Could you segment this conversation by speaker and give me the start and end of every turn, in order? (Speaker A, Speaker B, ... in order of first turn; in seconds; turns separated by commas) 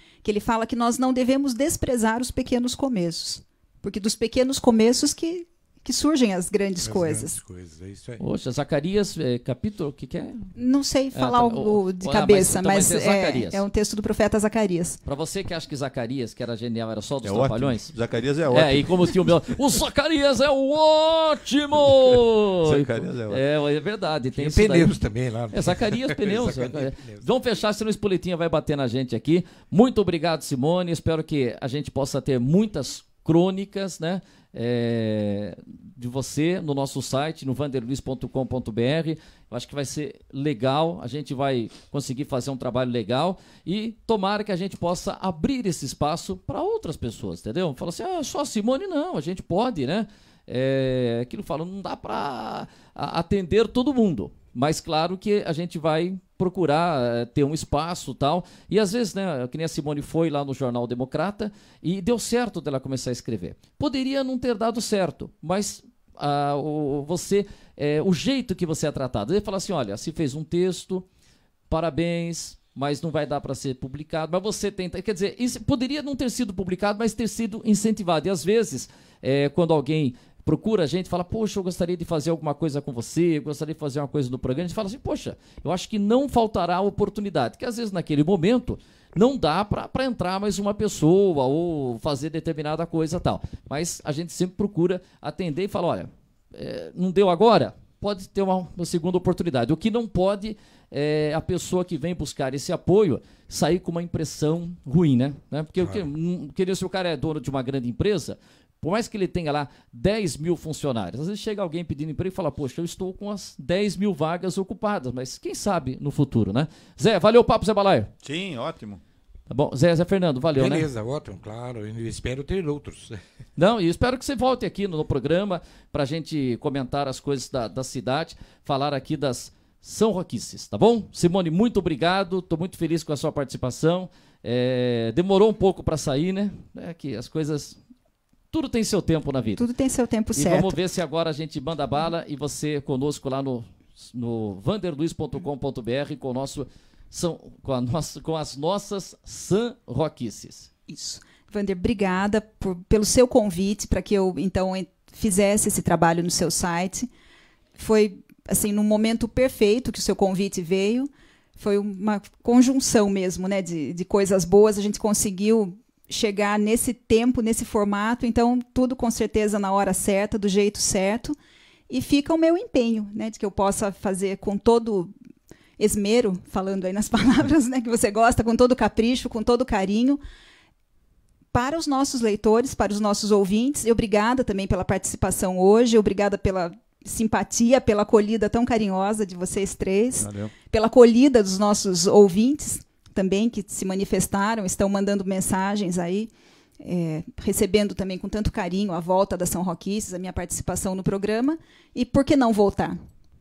Speaker A: 0.2-7.4, Speaker B: 6.8-8.3, Speaker C: 8.2-10.4, Speaker A: 10.6-15.0, Speaker C: 11.1-13.6, Speaker C: 15.1-17.9, Speaker D: 17.2-19.1, Speaker C: 18.5-25.0, Speaker D: 21.9-23.4, Speaker B: 24.4-27.3, Speaker C: 25.5-71.1, Speaker C: 71.7-118.1, Speaker B: 105.8-106.1, Speaker D: 118.2-119.0, Speaker C: 119.5-120.9, Speaker B: 120.5-123.2, Speaker C: 123.6-137.8, Speaker C: 138.5-139.7, Speaker A: 139.6-140.8, Speaker C: 140.3-150.7, Speaker A: 150.9-157.1, Speaker A: 157.8-171.4, Speaker A: 171.9-175.1, Speaker A: 175.8-180.2, Speaker A: 181.5-196.3, Speaker D: 190.2-190.5, Speaker A: 196.8-202.9